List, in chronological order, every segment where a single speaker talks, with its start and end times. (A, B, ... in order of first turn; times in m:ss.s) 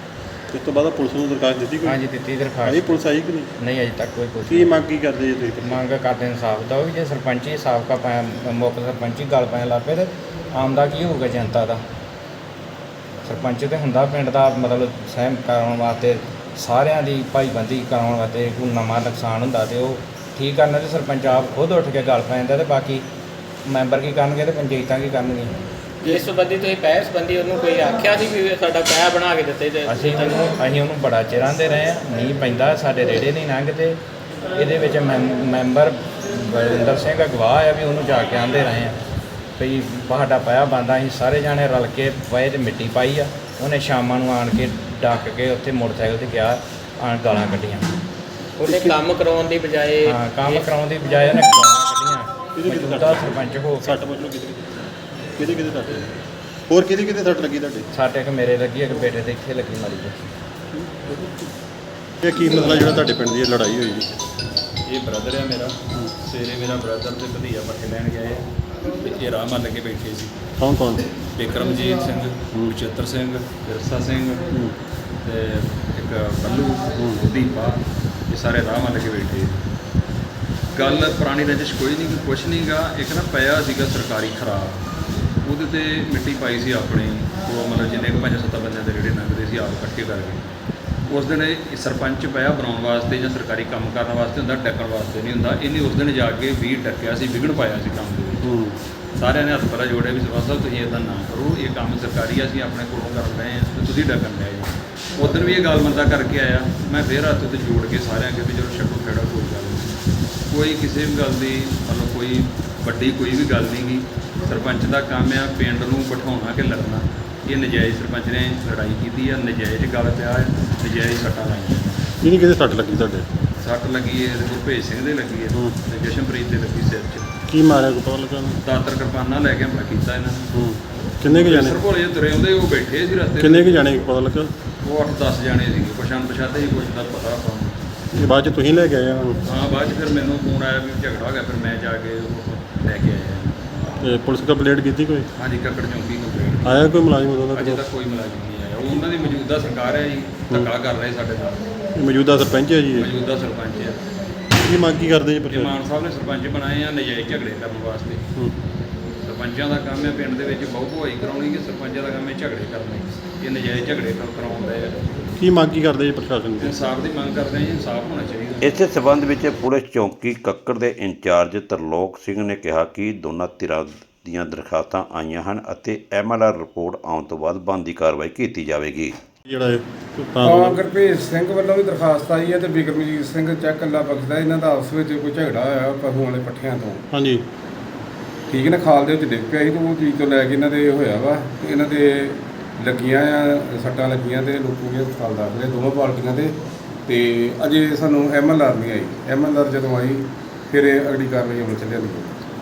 0:00.5-0:02.0 A
0:01.8-0:03.0 B
0:02.6-0:03.5 A
0:03.6-0:04.9 B
0:04.5-0:05.8 A
0:05.6-0:11.8 B
0:13.2-0:23.0 B
0:23.7-0:25.5 B
0:26.0-0:30.3 C
0:29.9-0:34.0 B
0:34.6-0:39.0 B
0:39.6-0:47.9 B
0:48.6-0:50.7 C
0:48.6-0:49.0 A
0:50.0-0:54.0 B
0:52.6-0:57.9 A
0:57.9-1:00.3 B
1:00.7-1:01.5 A
1:02.2-1:04.1 A
1:04.8-1:10.4 D
1:10.6-1:11.1 A
1:11.2-1:14.6 D
1:15.2-1:19.6 D
1:17.0-1:17.2 A
1:20.7-1:24.9 D
1:25.4-1:30.4 D
1:31.1-1:38.5 D
1:38.4-1:38.8 A
1:39.2-1:50.0 D
1:50.5-2:02.1 D
2:02.2-2:03.3 A
2:03.6-2:07.3 D
2:07.5-2:08.6 A
2:08.6-2:10.5 D
2:10.5-2:11.8 A
2:11.2-2:14.1 D
2:13.4-2:14.5 A
2:14.8-2:17.8 D
2:18.1-2:19.4 A
2:19.4-2:23.7 D
2:24.0-2:25.3 A
2:25.4-2:31.7 D
2:26.6-2:27.8 A
2:32.0-2:33.1 A
2:33.0-2:34.0 D
2:34.5-2:35.8 A
2:35.4-2:38.2 D
2:39.2-2:45.3 D
2:45.4-2:46.7 A
2:46.6-2:48.8 D
2:48.6-2:59.1 E
2:59.4-3:00.8 A
3:00.4-3:07.0 F
3:07.1-3:07.4 A
3:08.5-3:16.5 F
3:17.1-3:22.3 F